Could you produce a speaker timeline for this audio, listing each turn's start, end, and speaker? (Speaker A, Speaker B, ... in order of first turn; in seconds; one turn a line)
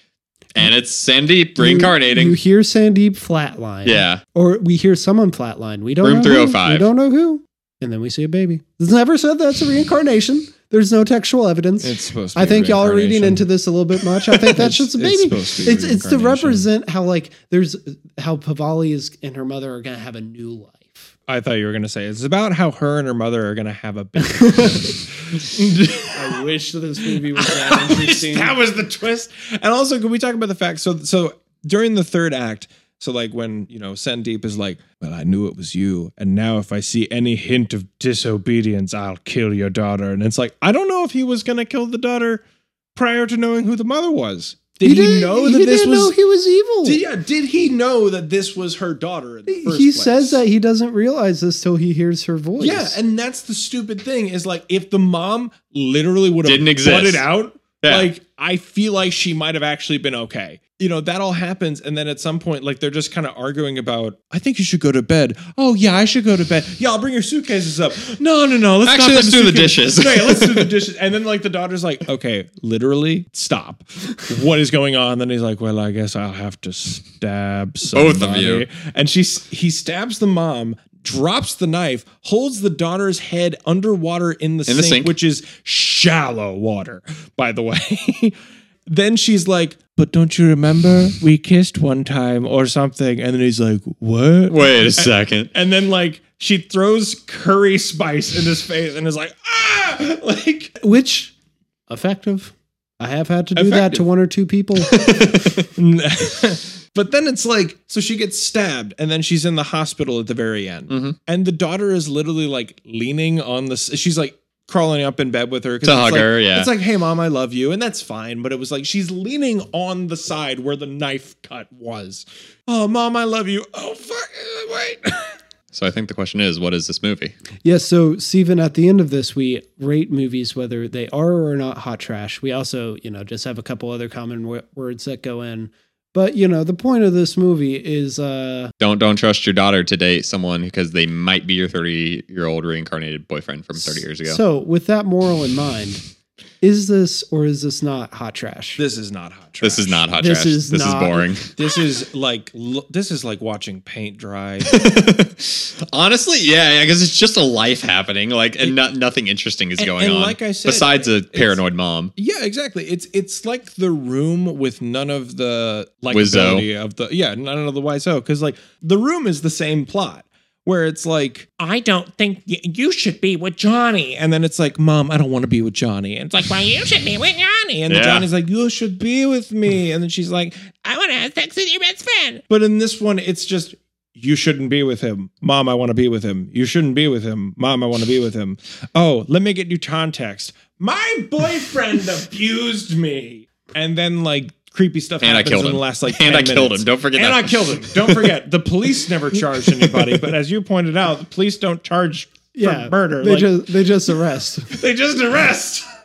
Speaker A: 0.6-2.4
Speaker B: 1.6-21.1
Speaker A: 3.9-4.2
Speaker A: 6.0-6.9
Speaker C: 11.8-13.4
Speaker C: 14.0-16.7
Speaker C: 21.3-26.4
Speaker B: 26.1-28.5
Speaker C: 27.4-42.4
Speaker C: 42.9-46.1
Speaker B: 44.8-47.0
Speaker C: 46.8-50.4
Speaker B: 49.5-53.0
Speaker C: 52.6-88.3
Speaker A: 56.4-57.3
Speaker A: 57.8-58.1
Speaker A: 68.8-70.8
Speaker A: 77.9-78.7
Speaker A: 84.7-85.1
Speaker C: 88.9-100.7
Speaker A: 94.5-95.5
Speaker B: 100.8-101.3
Speaker B: 101.9-105.0
Speaker C: 103.5-104.1
Speaker A: 104.9-105.5
Speaker C: 105.8-125.3
Speaker A: 110.9-111.2
Speaker A: 115.8-116.7
Speaker A: 125.7-127.3
Speaker B: 127.6-138.7
Speaker A: 138.8-144.4
Speaker B: 143.7-146.0
Speaker B: 146.6-148.8
Speaker C: 148.8-150.1
Speaker A: 149.6-151.5
Speaker B: 150.2-151.4
Speaker C: 151.5-154.8
Speaker A: 154.7-162.1
Speaker C: 159.8-161.6
Speaker C: 162.2-203.5
Speaker A: 166.1-166.7
Speaker A: 177.9-178.3
Speaker A: 195.2-197.8
Speaker B: 202.5-204.7
Speaker C: 204.7-205.8